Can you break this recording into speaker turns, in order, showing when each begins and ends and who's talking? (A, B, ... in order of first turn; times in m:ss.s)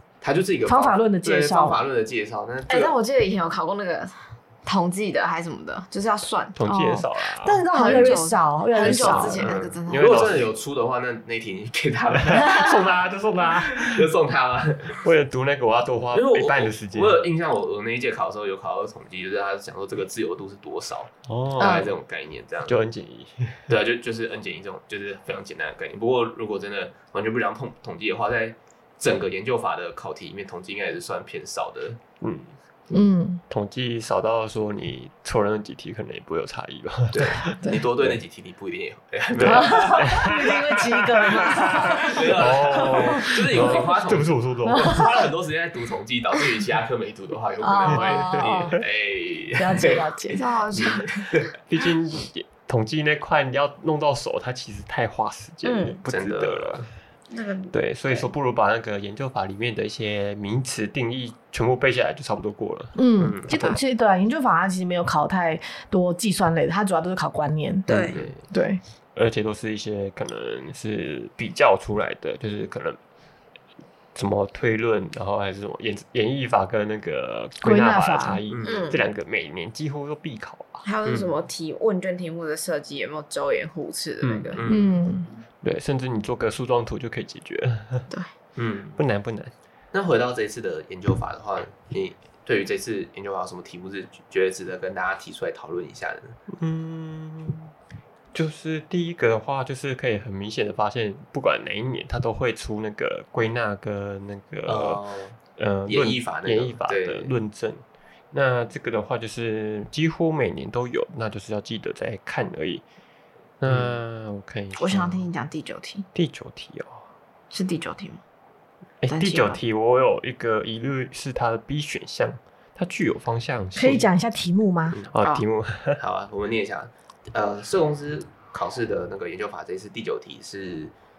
0:00.2-0:03.0 A
0:00.7-0:01.8 B
0:02.7-0:06.6 C
0:06.6-0:08.2 D
0:06.7-0:09.5 B
0:07.7-0:10.3 C
0:08.8-0:10.5 D
0:09.4-0:12.9 A
0:12.1-0:14.1 D
0:13.4-0:15.0 A
0:15.0-0:17.2 D
0:16.1-0:22.8 A
0:21.3-0:21.9 D
0:21.6-0:21.9 C
0:22.7-0:23.7 D
0:23.7-0:32.0 A
0:32.2-0:38.2 D
0:32.9-0:33.4 B
0:37.1-0:40.2 A
0:39.4-0:45.1 D
0:39.4-0:43.7 B
0:42.0-0:50.1 A
0:44.7-0:45.1 B
0:47.6-0:48.8 B
0:47.9-0:48.8 D
0:49.6-0:50.4 B
0:50.3-0:51.3 C
0:50.7-0:51.5 A
0:51.7-0:56.9 D
0:55.6-0:56.0 C
0:56.1-0:56.9 A
0:57.3-0:58.3 C
0:57.7-1:03.0 D
1:03.0-1:07.9 B
1:03.2-1:03.7 A
1:03.5-1:03.8 C
1:07.9-1:08.2 C
1:07.9-1:08.3 D
1:08.1-1:08.4 A
1:08.5-1:08.8 B
1:09.2-1:13.0 D
1:14.2-1:21.3 D
1:17.6-1:18.4 B
1:18.5-1:19.0 A
1:18.6-1:19.0 C
1:20.8-1:24.6 C
1:24.2-1:25.0 A
1:24.7-1:25.3 B
1:25.6-1:28.1 D
1:28.6-1:29.0 A
1:29.0-1:29.5 D
1:29.9-1:36.4 A
1:36.5-1:37.7 D
1:38.3-1:45.0 D
1:44.7-1:47.3 A
1:45.6-1:52.8 D
1:53.6-1:55.3 D
1:53.7-1:54.0 A
1:54.8-1:56.1 C
1:56.2-1:57.0 D
1:57.5-1:58.2 C
1:59.0-2:04.1 D
1:59.1-1:59.6 C
2:03.8-2:05.0 B
2:05.0-2:06.0 D
2:06.0-2:10.9 A